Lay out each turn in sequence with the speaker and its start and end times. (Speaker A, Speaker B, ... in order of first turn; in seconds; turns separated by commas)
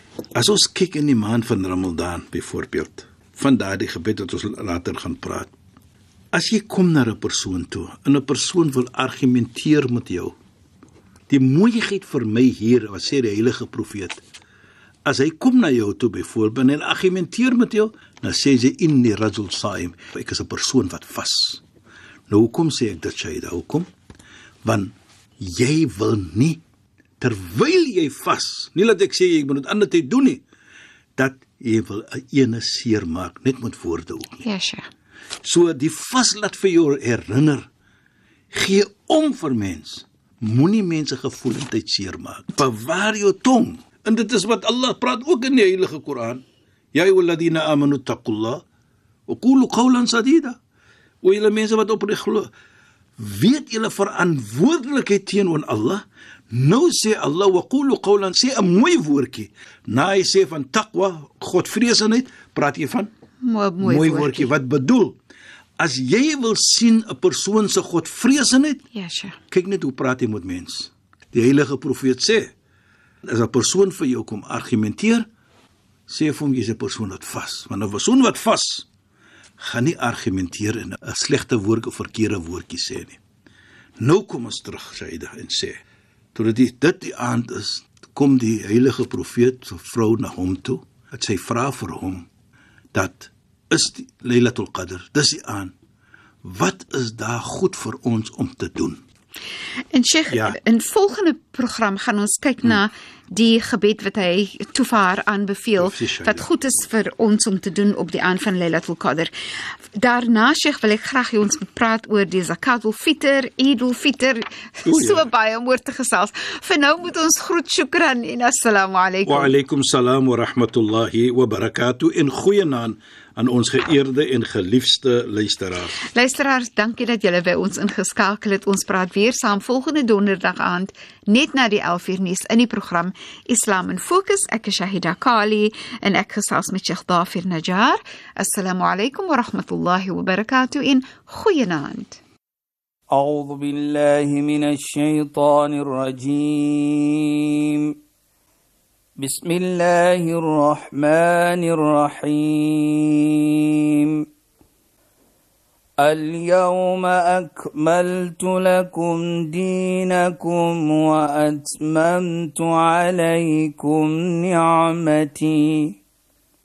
Speaker A: 0.3-5.5, Speaker A: 6.3-10.3, Speaker A: 11.3-14.2, Speaker A: 15.0-21.6, Speaker A: 22.3-23.9, Speaker A: 24.6-26.6, Speaker A: 27.2-30.4, Speaker A: 31.1-34.4, Speaker B: 34.4-34.9, Speaker A: 35.4-37.7, Speaker A: 38.5-48.6, Speaker A: 49.3-50.5, Speaker A: 51.2-52.5, Speaker A: 53.2-63.1, Speaker B: 63.4-64.5, Speaker A: 63.8-65.2, Speaker A: 65.8-68.8, Speaker B: 68.9-69.4, Speaker A: 69.5-72.5, Speaker A: 73.2-75.3, Speaker A: 76.1-78.9, Speaker A: 79.6-83.2, Speaker A: 84.0-85.8, Speaker A: 86.3-92.3, Speaker A: 92.9-95.7, Speaker A: 96.4-99.0, Speaker B: 99.9-109.3, Speaker A: 100.3-100.6, Speaker A: 105.8-106.5, Speaker B: 109.9-119.5, Speaker A: 114.8-115.2, Speaker A: 119.2-126.0, Speaker B: 126.1-142.2, Speaker C: 143.1-147.9, Speaker C: 149.2-154.2, Speaker C: 156.0-166.0